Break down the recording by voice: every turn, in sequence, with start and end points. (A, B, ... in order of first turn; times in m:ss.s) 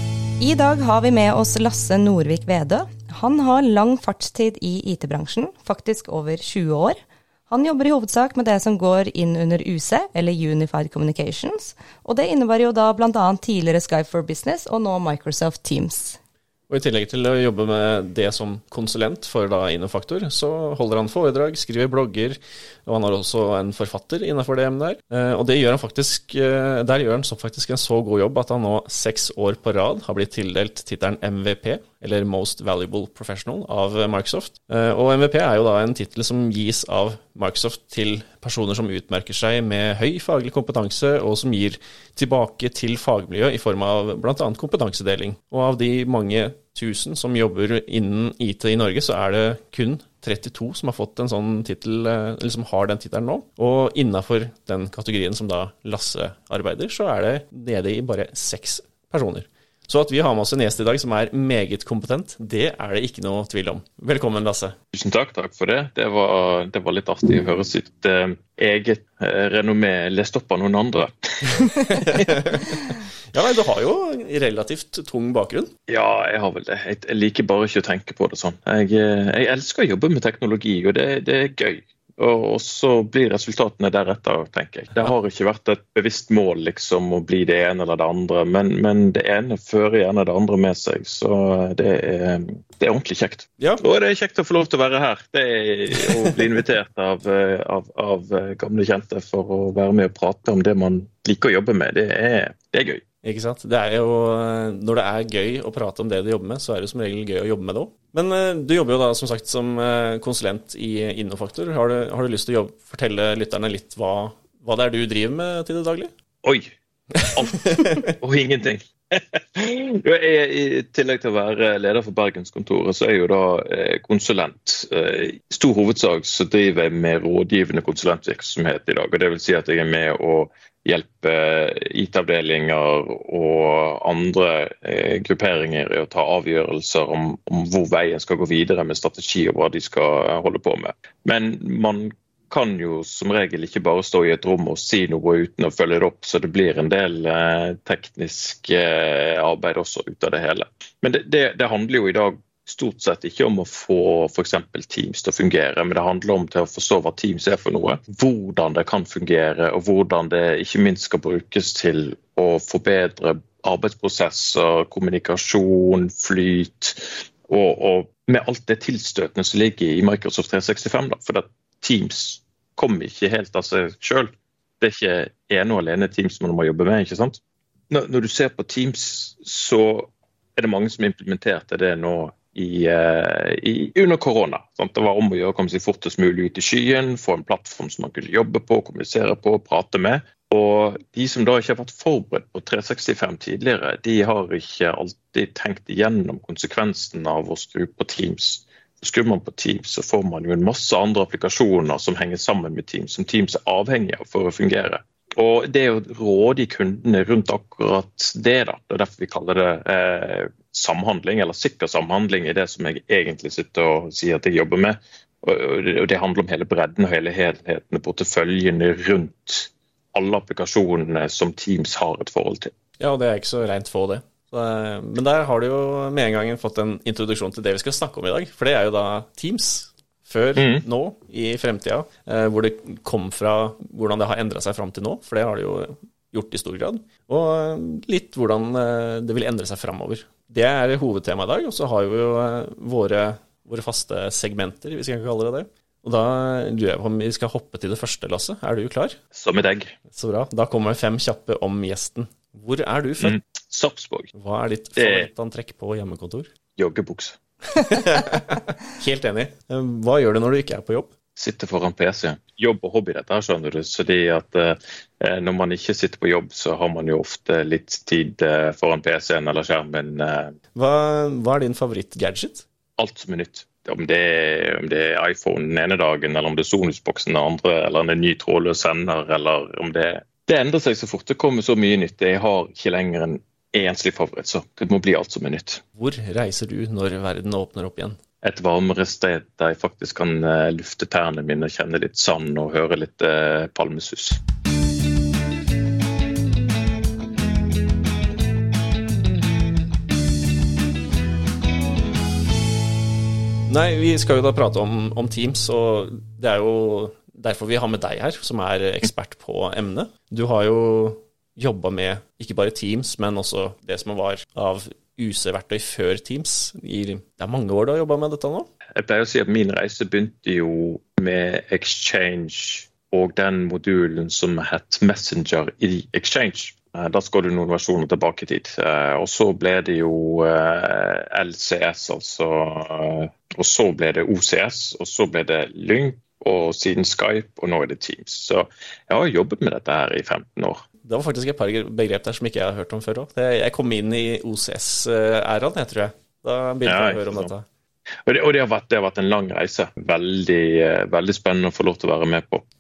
0:00.4-0:16.2 A
0:16.7-1:04.8 B
1:04.9-1:12.3 C
1:11.9-1:15.7 B
1:15.9-1:43.0 C
1:43.2-1:56.1 B
1:56.4-1:56.7 C
1:57.1-1:58.1 B
1:57.3-2:57.4 C
2:57.9-3:42.7 C
3:43.0-4:09.2 B
3:50.6-3:50.8 C
4:09.3-4:10.0 C
4:10.1-4:13.4 B
4:13.2-4:14.3 C
4:14.4-4:16.5 B
4:15.0-4:15.3 C
4:16.8-4:17.4 C
4:17.7-4:21.1 B
4:21.4-4:30.6 C
4:30.8-4:32.7 B
4:33.0-4:45.8 C
4:46.0-4:48.2 B
4:48.4-4:54.4 C
5:03.7-5:18.7 B
5:19.0-5:40.8 C
5:41.0-5:47.6 B
5:46.8-5:47.5 C
5:48.2-5:52.6 C